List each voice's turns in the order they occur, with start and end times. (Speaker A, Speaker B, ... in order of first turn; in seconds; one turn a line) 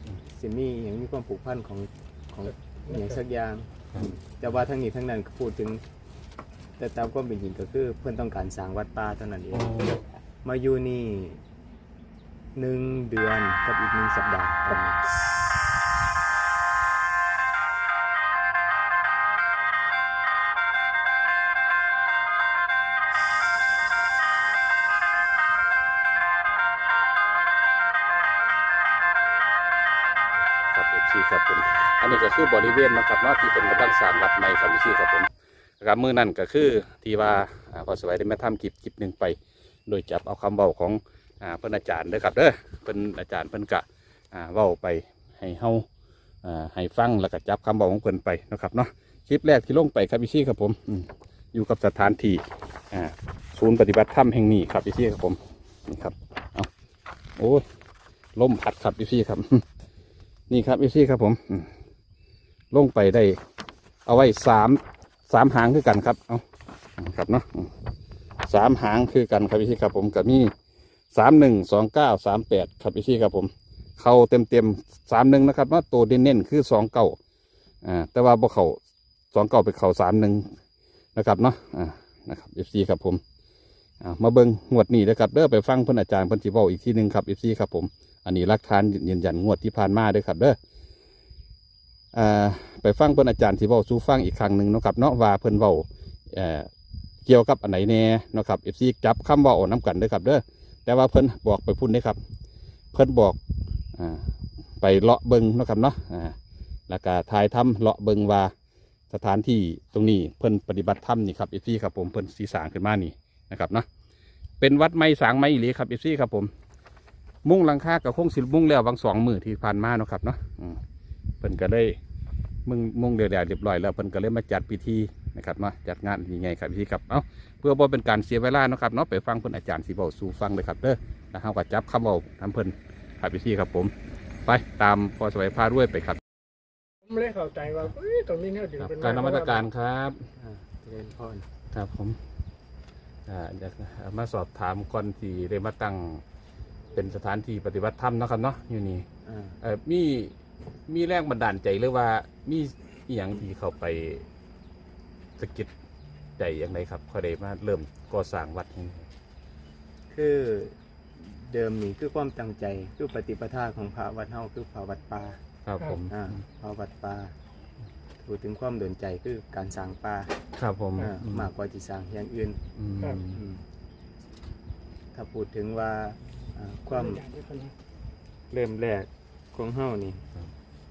Speaker A: 0.2-5.8
Speaker B: 2.9-3.2
Speaker A: 6.8-11.4
Speaker C: 9.5-10.0
Speaker A: 12.5-15.0
Speaker C: 30.7-35.3
Speaker C: 35.8-45.9
Speaker C: 46.4-56.7
Speaker C: 57.4-57.6
Speaker C: 58.4-59.6
Speaker C: 60.5-61.7
Speaker C: 62.7-63.4
Speaker C: 64.0-66.4
Speaker C: 67.0-67.7
Speaker C: 68.5-70.5
Speaker C: 71.1-77.2
Speaker C: 77.8-78.8
Speaker C: 79.3-80.5
Speaker C: 81.2-83.2
Speaker C: 84.0-90.6
Speaker C: 92.1-96.7
Speaker C: 97.2-102.2
Speaker C: 102.9-103.4
Speaker C: 103.9-106.3
Speaker C: 106.9-108.5
Speaker C: 109.1-113.9
Speaker C: 114.6-116.5
Speaker C: 117.4-120.8
Speaker C: 121.4-122.0
Speaker C: 122.7-133.9
Speaker C: 134.4-136.2
Speaker B: 137.1-139.6
Speaker C: 138.8-140.2
Speaker A: 140.4-141.5
Speaker C: 141.7-142.2
Speaker C: 143.3-146.2
Speaker C: 146.9-149.1
Speaker A: 149.2-149.6
Speaker C: 149.6-150.3
Speaker C: 150.9-154.2
Speaker C: 155.4-155.7
Speaker C: 156.4-159.1
Speaker A: 160.1-165.4
Speaker C: 165.6-166.4
Speaker A: 166.1-167.3
Speaker A: 168.2-170.3
Speaker C: 170.6-171.5
Speaker A: 171.0-172.6
Speaker C: 172.8-173.4
Speaker A: 173.3-173.6
Speaker A: 175.1-177.2
Speaker B: 176.9-177.7
Speaker A: 178.5-180.2